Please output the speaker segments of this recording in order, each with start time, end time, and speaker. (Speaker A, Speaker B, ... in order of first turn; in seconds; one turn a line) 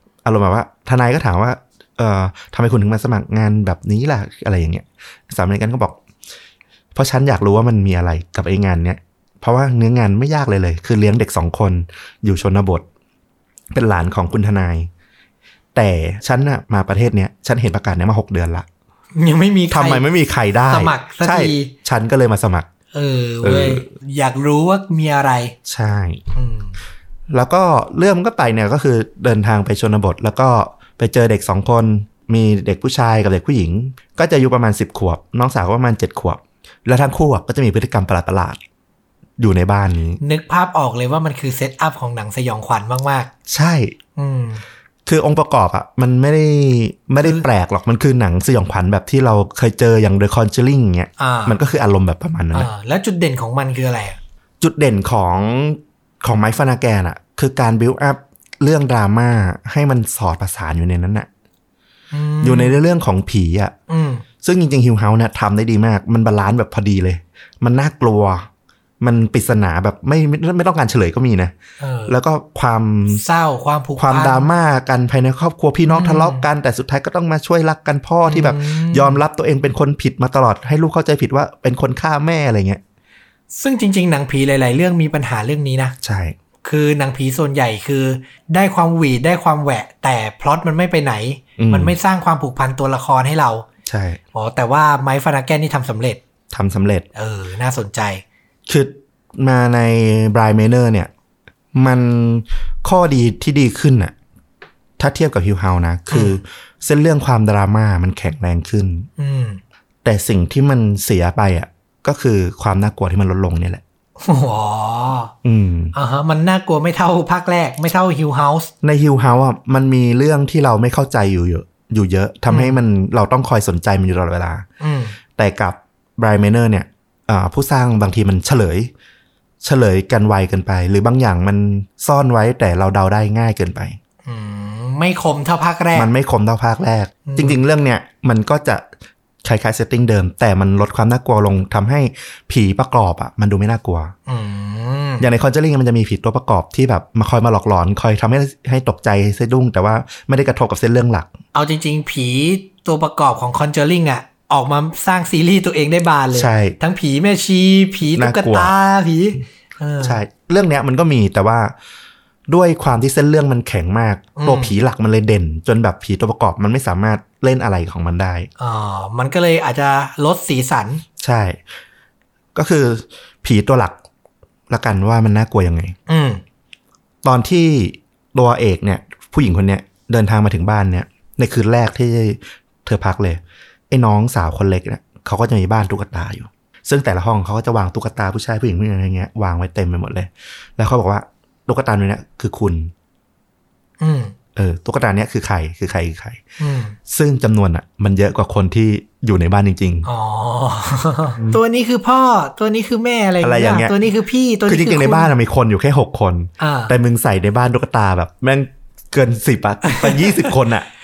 Speaker A: 0.2-6.0
Speaker A: 6.9-12.8
Speaker A: 13.7-14.9
Speaker A: 15.7-18.6
Speaker B: 19.1-20.1
Speaker A: 19.7-22.7
Speaker B: 20.7-21.7
Speaker B: 22.9-25.5
Speaker A: 23.4-23.9
Speaker A: 25.7-26.2
Speaker B: 26.3-26.8
Speaker A: 27.3-38.6
Speaker A: 39.4-40.2
Speaker B: 40.2-43.3
Speaker A: 43.5-43.9
Speaker B: 44.1-44.6
Speaker A: 45.0-52.7
Speaker B: 51.2-51.6
Speaker B: 52.5-54.2
Speaker A: 54.6-61.3
Speaker B: 62.1-62.8
Speaker A: 62.4-63.7
Speaker B: 63.9-64.2
Speaker A: 64.4-68.5
Speaker A: 69.0-71.5
Speaker B: 71.8-72.2
Speaker A: 72.1-73.2
Speaker B: 73.1-74.5
Speaker A: 74.0-82.8
Speaker B: 75.9-76.5
Speaker B: 78.2-79.2
Speaker B: 83.5-85.9
Speaker A: 86.0-86.3
Speaker B: 86.6-93.7
Speaker A: 91.6-92.0
Speaker A: 93.8-94.2
Speaker B: 94.3-96.2
Speaker A: 96.5-97.0
Speaker B: 97.1-98.2
Speaker A: 98.7-101.1
Speaker A: 101.7-104.1
Speaker A: 105.0-109.1
Speaker B: 106.1-106.4
Speaker B: 109.2-109.6
Speaker A: 110.0-113.8
Speaker B: 114.2-115.3
Speaker A: 115.4-115.9
Speaker B: 115.9-118.7
Speaker A: 118.8-124.6
Speaker B: 122.5-122.8
Speaker B: 124.8-125.2
Speaker A: 125.4-128.9
Speaker A: 129.6-133.9
Speaker B: 134.2-136.1
Speaker A: 135.9-138.9
Speaker B: 137.2-137.6
Speaker A: 139.4-144.1
Speaker B: 144.3-145.3
Speaker A: 145.2-151.3
Speaker B: 151.5-160.2
Speaker A: 156.3-156.8
Speaker A: 158.1-158.7
Speaker A: 160.0-161.7
Speaker A: 162.5-168.5
Speaker B: 164.3-164.8
Speaker B: 168.6-171.0
Speaker A: 171.2-171.6
Speaker A: 172.5-173.9
Speaker A: 174.7-175.9
Speaker B: 176.1-176.4
Speaker A: 177.2-192.9
Speaker B: 194.0-194.3
Speaker A: 194.6-196.4
Speaker B: 196.6-196.9
Speaker A: 197.1-200.1
Speaker B: 200.0-205.3
Speaker A: 203.4-204.0
Speaker A: 204.7-210.9
Speaker B: 206.6-206.9
Speaker B: 209.8-210.5